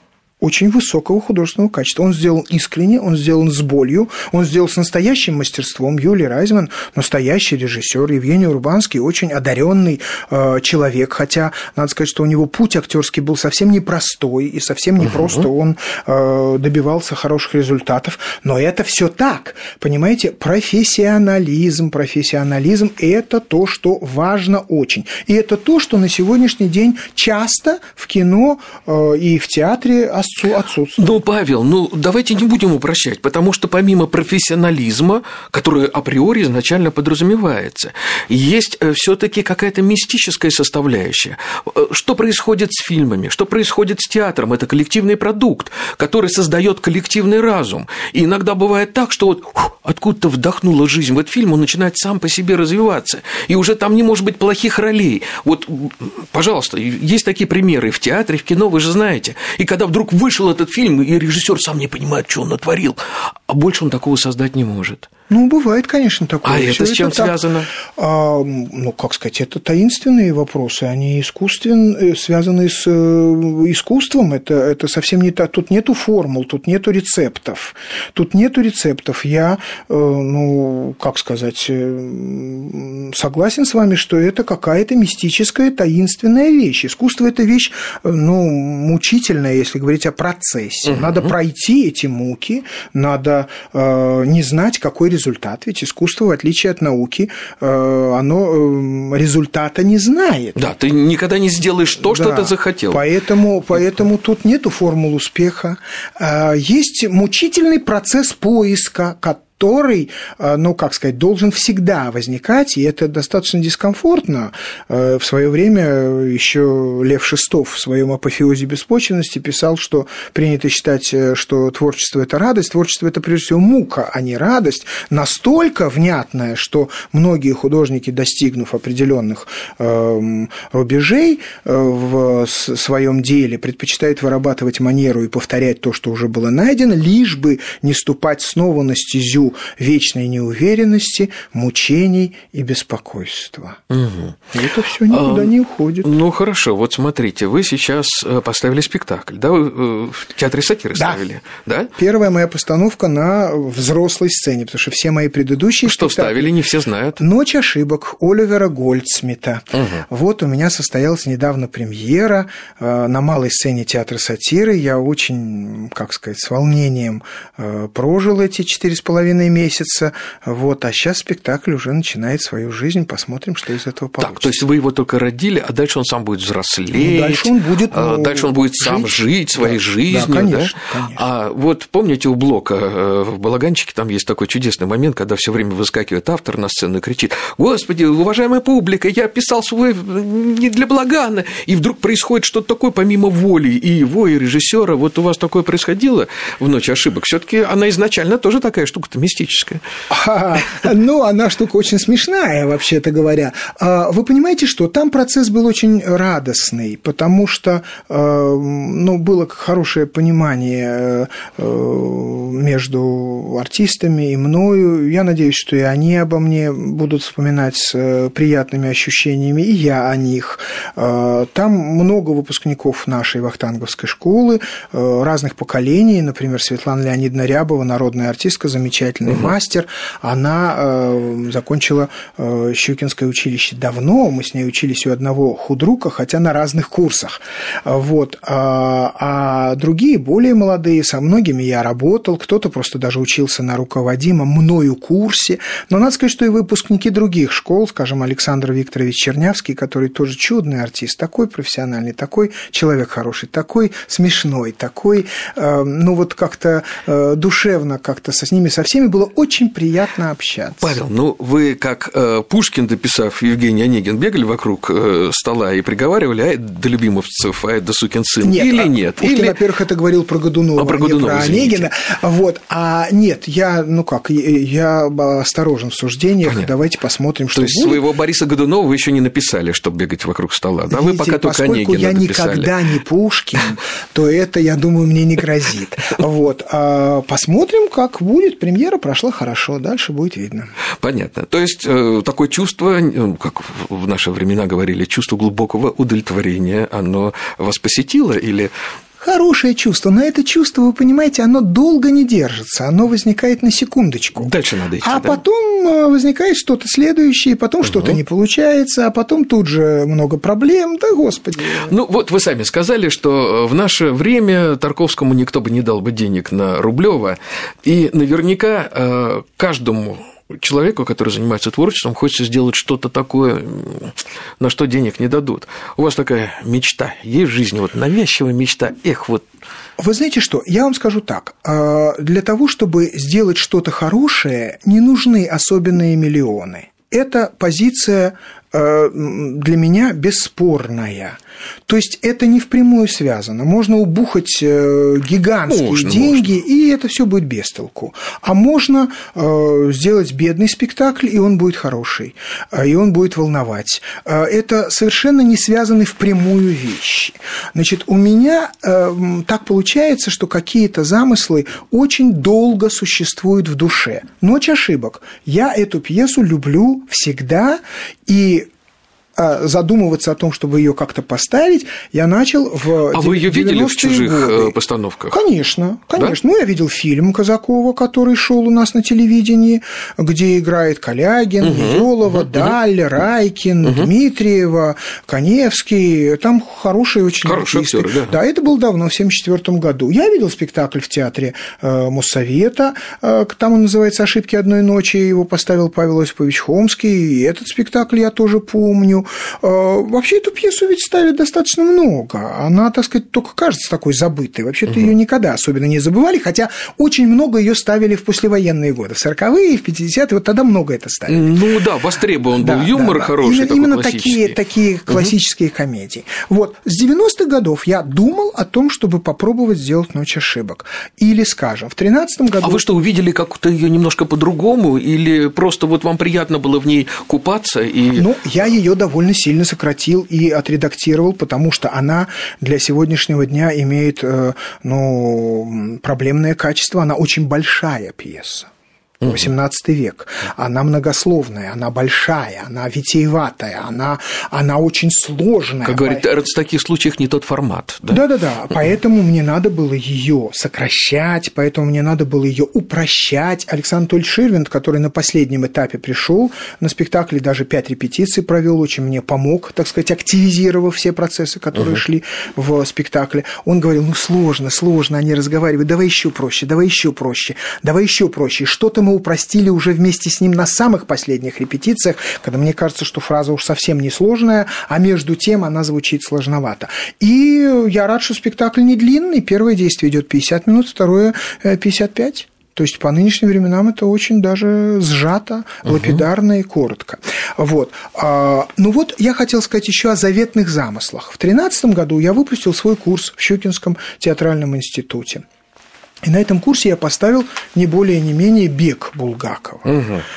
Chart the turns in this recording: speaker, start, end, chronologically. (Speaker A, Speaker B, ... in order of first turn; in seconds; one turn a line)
Speaker A: 0.4-31.1
Speaker B: 15.0-15.5
Speaker B: 31.0-65.1
Speaker A: 65.3-67.4
Speaker B: 66.4-67.7
Speaker A: 67.9-100.8
Speaker B: 90.8-91.3
Speaker B: 100.5-103.1
Speaker A: 102.0-143.8
Speaker B: 143.9-144.6
Speaker A: 144.5-146.1
Speaker B: 145.1-151.9
Speaker A: 150.9-151.2
Speaker A: 152.0-156.6
Speaker B: 155.8-157.2
Speaker A: 157.2-174.7
Speaker B: 159.7-160.0
Speaker B: 174.2-199.8
Speaker A: 176.9-181.2
Speaker A: 200.1-261.0
Speaker B: 229.3-229.5
Speaker B: 260.8-269.6
Speaker A: 268.4-278.0
Speaker B: 270.8-271.9
Speaker B: 276.4-276.7
Speaker B: 277.5-282.8
Speaker A: 280.9-290.7
Speaker B: 291.0-298.7
Speaker A: 299.2-311.9
Speaker B: 304.4-305.4
Speaker B: 307.8-308.2
Speaker B: 311.9-329.4
Speaker A: 330.0-368.7
Speaker B: 345.7-346.6
Speaker A: 369.4-374.8
Speaker B: 373.1-375.4
Speaker A: 375.3-411.6
Speaker B: 381.6-382.8
Speaker B: 383.8-384.1
Speaker B: 387.4-388.4
Speaker B: 404.9-405.1
Speaker B: 411.3-414.5
Speaker A: 412.5-422.8
Speaker B: 415.1-415.3
Speaker B: 422.6-428.3
Speaker A: 428.1-438.7
Speaker B: 439.2-439.5
Speaker A: 439.2-446.3
Speaker B: 445.8-448.9
Speaker A: 448.1-495.4
Speaker B: 485.8-486.2
Speaker A: 496.2-500.0
Speaker B: 499.9-500.2